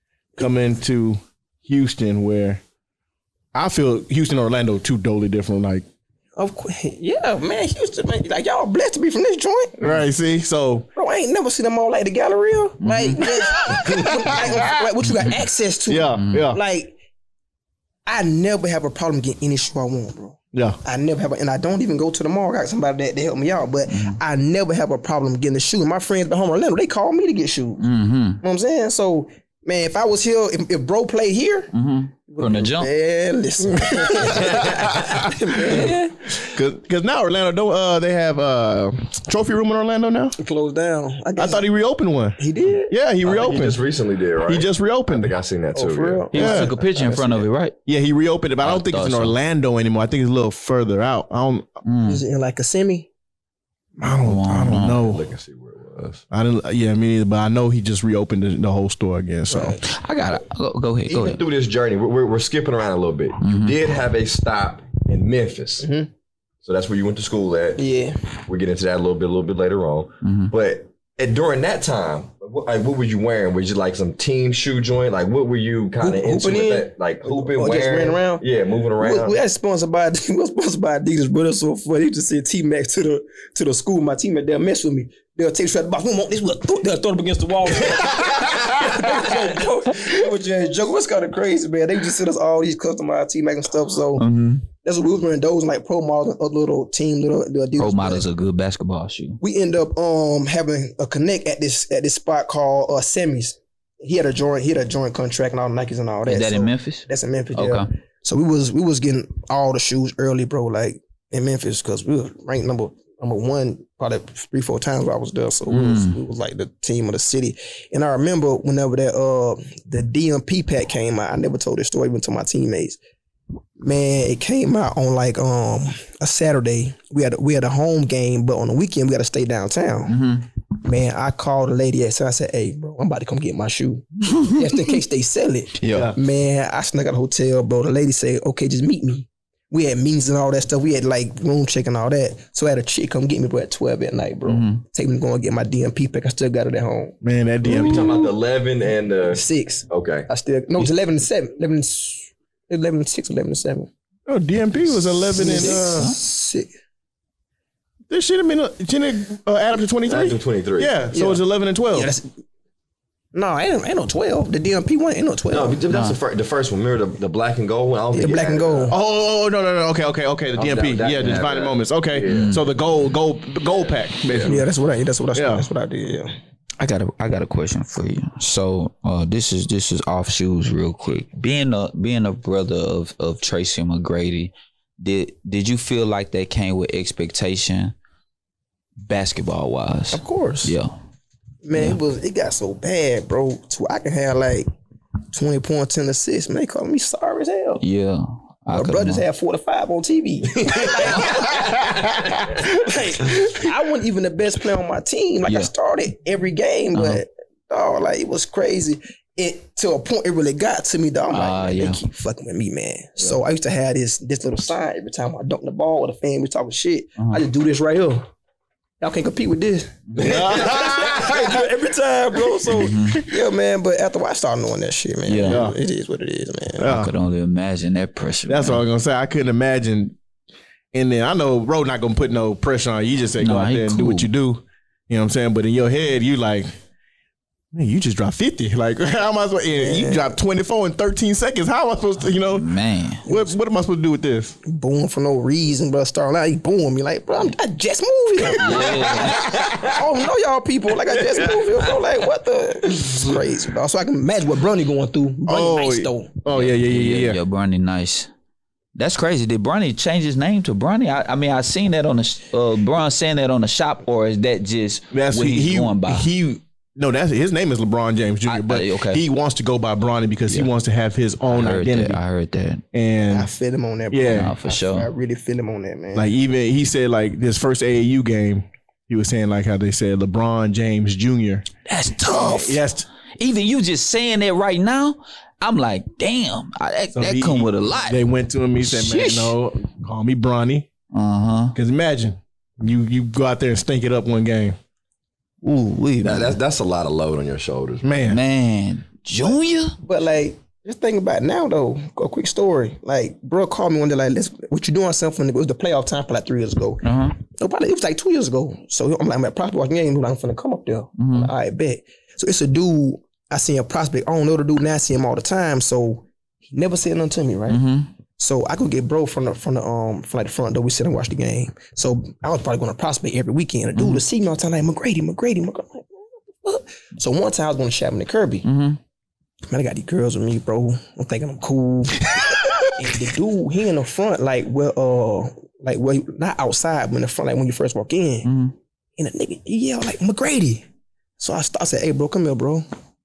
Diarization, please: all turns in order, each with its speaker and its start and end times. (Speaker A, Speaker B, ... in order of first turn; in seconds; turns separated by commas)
Speaker A: 0.4-2.6, Speaker A: 3.5-5.8, Speaker B: 6.4-9.8, Speaker A: 9.8-10.9, Speaker B: 10.9-16.9, Speaker C: 12.8-13.2, Speaker A: 13.5-14.9, Speaker A: 15.9-16.6, Speaker C: 16.2-16.5, Speaker B: 18.1-27.9, Speaker C: 23.9-24.2, Speaker C: 27.8-28.4, Speaker B: 28.4-31.7, Speaker C: 31.7-32.9, Speaker B: 32.3-36.3, Speaker A: 33.8-40.4, Speaker B: 40.4-41.6, Speaker A: 41.4-43.8, Speaker B: 42.4-42.9, Speaker D: 43.2-46.3, Speaker A: 44.5-45.4, Speaker B: 45.7-47.5, Speaker C: 46.3-47.8, Speaker A: 46.3-46.7, Speaker A: 47.9-51.7, Speaker C: 48.6-49.4, Speaker C: 51.9-52.2, Speaker B: 52.0-53.1, Speaker A: 54.0-55.2, Speaker C: 54.2-55.1, Speaker D: 55.0-56.2, Speaker A: 56.3-59.8, Speaker B: 59.5-59.8, Speaker C: 59.8-61.4, Speaker D: 61.1-65.9, Speaker C: 63.4-63.8, Speaker B: 65.8-66.1, Speaker D: 66.6-67.8, Speaker B: 67.8-68.2, Speaker D: 68.5-79.4, Speaker C: 70.2-70.5, Speaker B: 76.0-78.4, Speaker B: 79.0-94.2, Speaker C: 94.2-94.7, Speaker B: 94.8-98.3, Speaker C: 97.8-99.4, Speaker B: 99.4-123.0, Speaker C: 106.3-107.9, Speaker C: 115.7-116.2, Speaker B: 123.8-130.2, Speaker C: 130.1-130.5, Speaker B: 130.8-147.2, Speaker C: 135.8-136.1, Speaker A: 135.9-136.2, Speaker C: 144.5-144.8, Speaker A: 147.2-148.2, Speaker D: 147.7-150.3, Speaker B: 147.7-148.3, Speaker B: 149.3-153.9, Speaker A: 154.3-156.1, Speaker B: 155.3-156.7, Speaker C: 155.3-156.2, Speaker A: 158.1-162.1, Speaker D: 160.1-161.0, Speaker B: 161.1-161.4, Speaker B: 161.9-162.3, Speaker B: 163.3-165.8, Speaker D: 165.5-168.9, Speaker C: 165.9-166.2, Speaker B: 168.1-169.0, Speaker A: 168.9-174.6, Speaker D: 170.6-172.6, Speaker C: 172.3-172.6, Speaker D: 173.8-174.6, Speaker B: 174.4-176.3, Speaker A: 175.3-175.7, Speaker C: 176.8-187.9, Speaker C: 189.0-190.9, Speaker B: 190.1-190.8, Speaker B: 191.6-194.7, Speaker B: 195.3-197.8, Speaker C: 197.8-199.2, Speaker B: 198.7-201.9, Speaker A: 201.6-202.1, Speaker B: 202.4-218.3, Speaker C: 206.9-207.2, Speaker C: 211.3-212.0, Speaker C: 217.2-217.4, Speaker B: 219.0-226.9, Speaker A: 220.2-221.5, Speaker D: 220.3-221.3, Speaker C: 222.7-223.3, Speaker C: 225.3-225.7, Speaker A: 225.5-225.8, Speaker A: 226.8-227.1, Speaker C: 226.8-228.8, Speaker A: 228.5-230.2, Speaker A: 230.9-236.7, Speaker C: 233.4-234.3, Speaker A: 237.7-242.7, Speaker B: 239.7-240.3, Speaker C: 242.5-243.2, Speaker A: 243.2-244.6, Speaker B: 243.3-243.5, Speaker B: 244.7-249.3, Speaker C: 248.6-249.6, Speaker D: 248.7-250.0, Speaker A: 249.3-249.7, Speaker B: 249.8-256.3, Speaker A: 255.5-257.4, Speaker C: 256.5-258.3, Speaker C: 258.9-266.3, Speaker A: 265.1-272.2, Speaker C: 268.5-269.2, Speaker C: 271.5-272.8, Speaker A: 272.9-273.5, Speaker B: 273.3-276.3, Speaker A: 274.1-274.5, Speaker C: 274.3-275.1, Speaker A: 276.1-281.7, Speaker C: 281.9-282.8, Speaker A: 282.3-283.1, Speaker C: 283.4-288.2, Speaker A: 287.1-290.9, Speaker C: 288.8-289.5, Speaker C: 291.1-291.8, Speaker A: 291.8-294.8, Speaker C: 295.6-296.6, Speaker D: 296.2-298.1, Speaker A: 298.0-298.4, Speaker C: 298.2-300.0, Speaker B: 299.5-317.8, Speaker C: 307.0-307.4, Speaker C: 311.2-311.5, Speaker C: 317.7-318.1, Speaker B: 318.4-328.7, Speaker C: 324.0-324.2, Speaker C: 328.6-329.0, Speaker B: 329.7-338.5, Speaker C: 338.4-338.7, Speaker B: 339.2-340.9, Speaker B: 341.4-342.9